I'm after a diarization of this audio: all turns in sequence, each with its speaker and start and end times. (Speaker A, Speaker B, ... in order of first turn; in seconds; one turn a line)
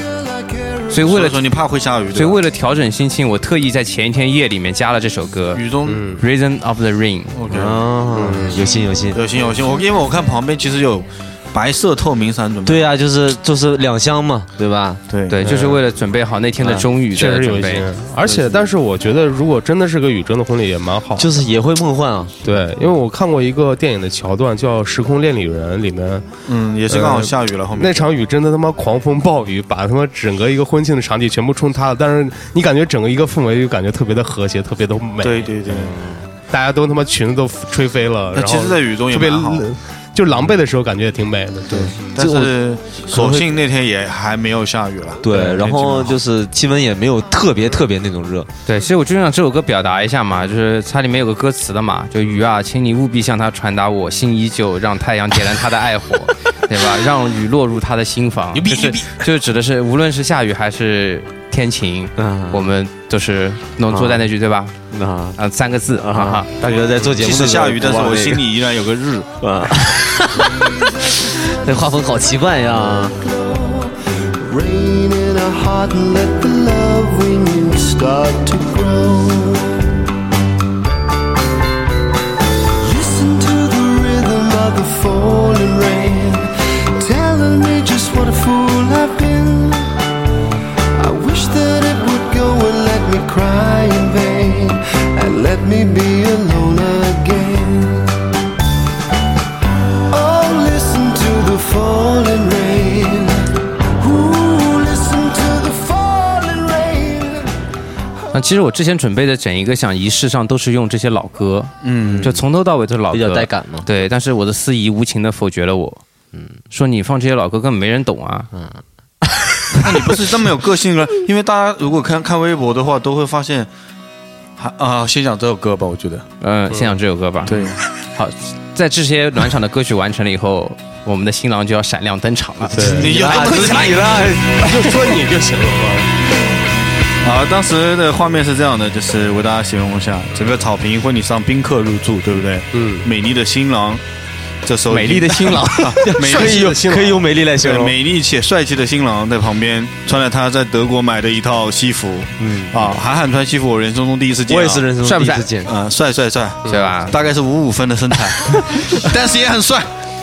Speaker A: 0.5-0.8
Speaker B: 0.9-1.4
Speaker C: 1.0-2.4
Speaker B: 2.1-5.6
Speaker C: 5.5-6.1
Speaker D: 5.9-6.2
Speaker B: 6.2-7.3
Speaker C: 7.3-7.9
Speaker E: 7.5-9.2
Speaker D: 8.2-8.6
Speaker C: 9.1-12.9
Speaker E: 12.7-15.0
Speaker C: 15.1-15.5
Speaker B: 15.3-17.9
Speaker D: 15.4-15.8
Speaker E: 16.6-16.9
Speaker D: 17.1-21.3
Speaker C: 18.2-18.5
Speaker E: 21.2-22.4
Speaker D: 22.4-26.3
Speaker C: 26.5-28.1
Speaker D: 26.9-35.5
Speaker C: 35.2-36.0
Speaker E: 35.7-36.2
Speaker D: 36.5-42.0
Speaker C: 38.3-39.7
Speaker E: 41.7-42.6
Speaker C: 41.7-46.2
Speaker E: 43.1-43.5
Speaker E: 45.2-48.5
Speaker B: 48.7-64.8
Speaker E: 58.6-59.0
Speaker E: 62.2-62.7
Speaker E: 63.9-64.3
Speaker E: 64.9-65.4
Speaker B: 65.4-66.5
Speaker E: 66.0-68.4
Speaker C: 66.7-69.4
Speaker E: 69.4-70.5
Speaker E: 71.1-73.2
Speaker A: 73.2-79.7
Speaker A: 82.8-89.9
Speaker A: 91.0-98.1
Speaker A: 100.1-107.5
Speaker B: 108.3-116.0
Speaker C: 111.8-112.3
Speaker E: 112.0-112.4
Speaker E: 113.1-113.9
Speaker E: 116.3-116.6
Speaker B: 116.7-118.5
Speaker E: 118.5-120.1
Speaker C: 119.8-123.7
Speaker C: 124.6-126.3
Speaker B: 126.4-127.5
Speaker C: 127.5-127.8
Speaker B: 128.2-132.9
Speaker D: 132.7-133.1
Speaker E: 132.7-134.9
Speaker C: 132.8-134.3
Speaker D: 134.6-136.1
Speaker C: 137.2-144.0
Speaker D: 142.7-143.1
Speaker C: 144.7-147.0
Speaker B: 144.9-146.0
Speaker E: 145.3-147.9
Speaker D: 146.2-147.2
Speaker C: 147.6-154.9
Speaker E: 152.4-152.8
Speaker E: 154.5-155.7
Speaker B: 155.0-155.5
Speaker C: 155.7-159.9
Speaker B: 156.7-157.2